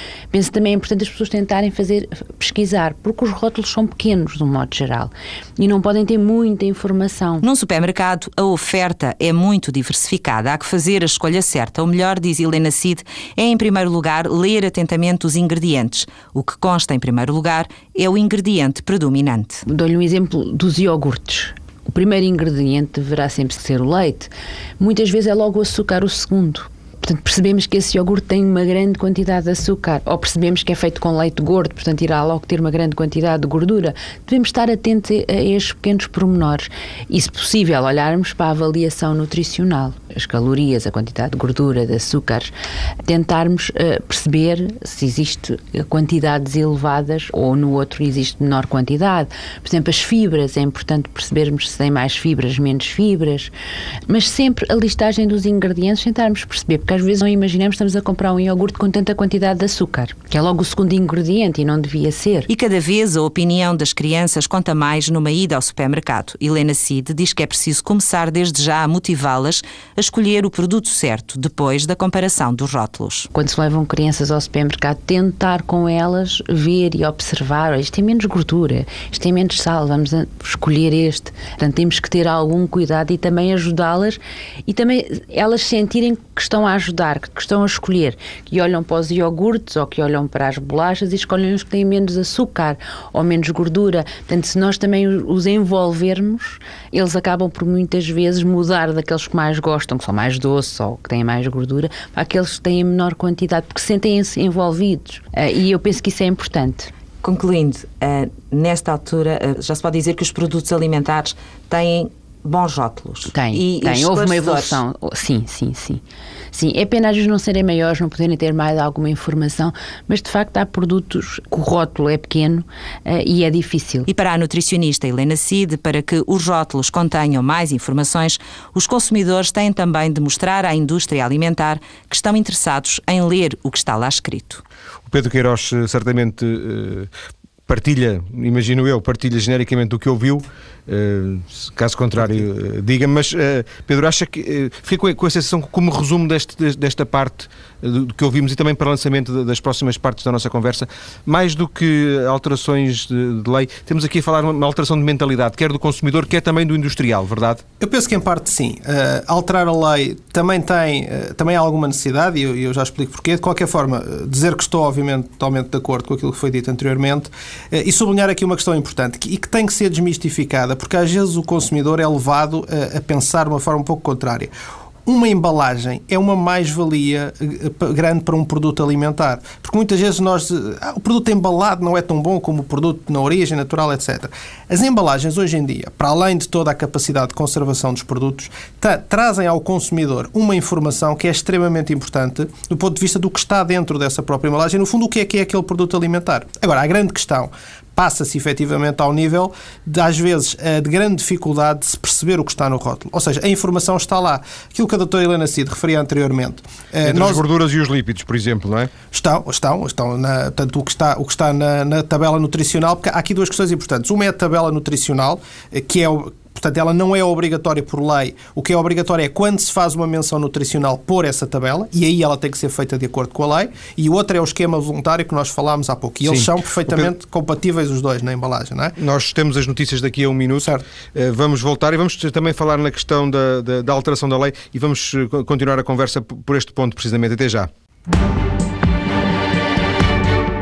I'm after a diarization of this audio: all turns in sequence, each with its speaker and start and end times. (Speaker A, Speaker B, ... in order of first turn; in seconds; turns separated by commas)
Speaker A: 0.3-7.5, Speaker B: 7.4-19.6, Speaker A: 19.7-42.5, Speaker A: 43.0-53.5, Speaker A: 54.1-62.5, Speaker B: 62.5-73.3, Speaker A: 73.3-106.9, Speaker B: 107.2-114.8, Speaker A: 113.3-116.0, Speaker A: 116.5-124.1, Speaker B: 124.1-134.6, Speaker C: 135.1-137.1, Speaker C: 137.7-157.6, Speaker D: 157.8-174.5, Speaker D: 175.1-207.4, Speaker C: 207.0-208.9, Speaker D: 209.1-229.0, Speaker C: 226.2-227.1, Speaker C: 229.0-237.7